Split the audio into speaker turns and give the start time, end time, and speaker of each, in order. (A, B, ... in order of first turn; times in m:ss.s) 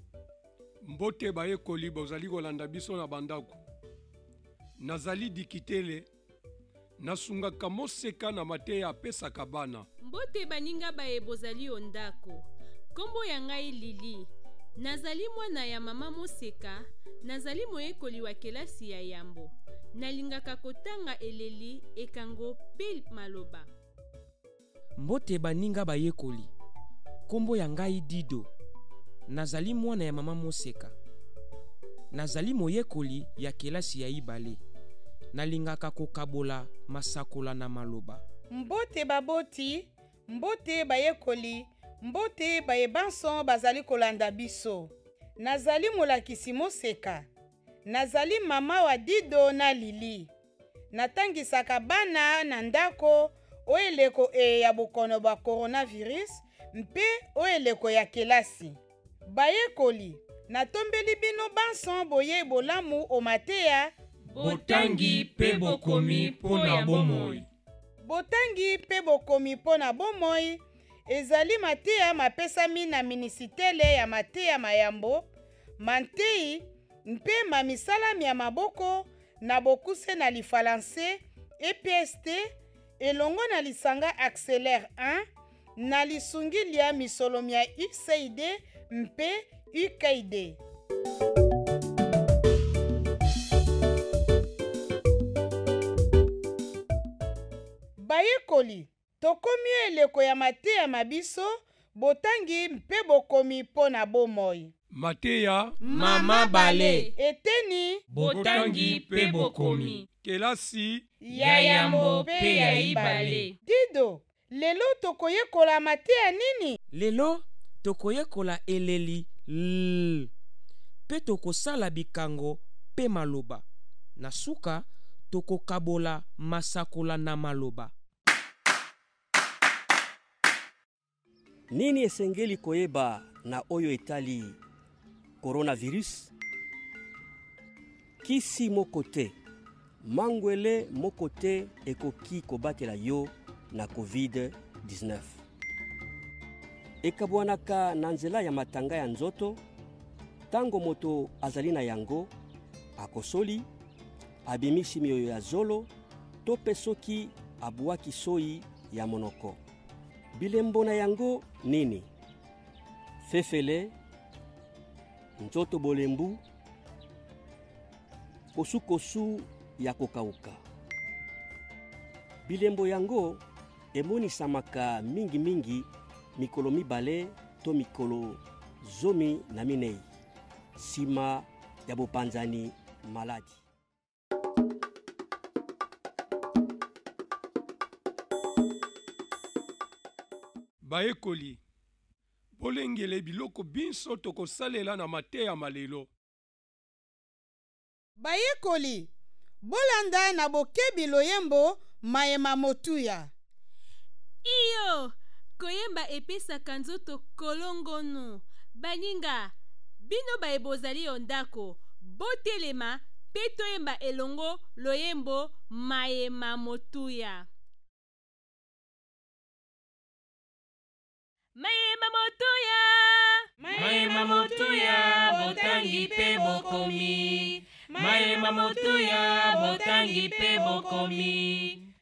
0:00.8-0:03.6 A
0:04.8-0:06.0 A
0:07.0-0:09.8 A
0:10.0-0:23.7 B
0:25.0-0:26.5 C
0:27.3-0:28.5 C
0:29.3-0:30.9 C
0:32.1-0:34.6 C
0:35.3-0:38.2 C
0:38.5-0:47.3 D
0:47.8-0:50.3 D
0:50.9-1:03.9 D
1:04.3-1:07.4 E
1:06.7-1:07.2 A
1:08.0-1:15.3 D
1:15.8-1:22.4 D
1:23.0-1:25.2 D
1:25.8-1:30.6 D
1:38.0-1:44.7 D
1:44.9-1:45.8 A
1:45.9-1:48.0 D
1:45.9-1:47.1 E
1:48.1-1:50.0 E
1:48.2-1:51.0 A
1:51.2-1:56.8 D
1:51.3-1:53.5 E
1:56.9-2:00.3 C
2:01.0-2:03.6 C
2:04.2-2:07.9 C
2:11.7-2:14.6 F
2:15.4-2:16.3 F
2:18.2-2:19.4 F
2:20.0-2:25.4 F
2:27.0-2:29.6 F
2:30.5-2:32.3 F
2:33.0-2:33.7 F
2:34.4-2:35.9 F
2:36.4-2:39.6 F
2:40.4-2:42.1 F
2:43.2-2:43.9 F
2:45.4-2:46.4 F
2:48.5-2:50.6 F
2:52.4-2:53.4 F
2:53.9-3:00.0 F
3:00.8-3:03.6 F
3:10.8-3:11.6 A
3:12.6-3:16.1 A
3:18.2-3:19.1 D
3:19.6-3:23.3 D
3:24.4-3:37.5 B
3:41.6-3:43.4 B
3:43.7-3:51.8 E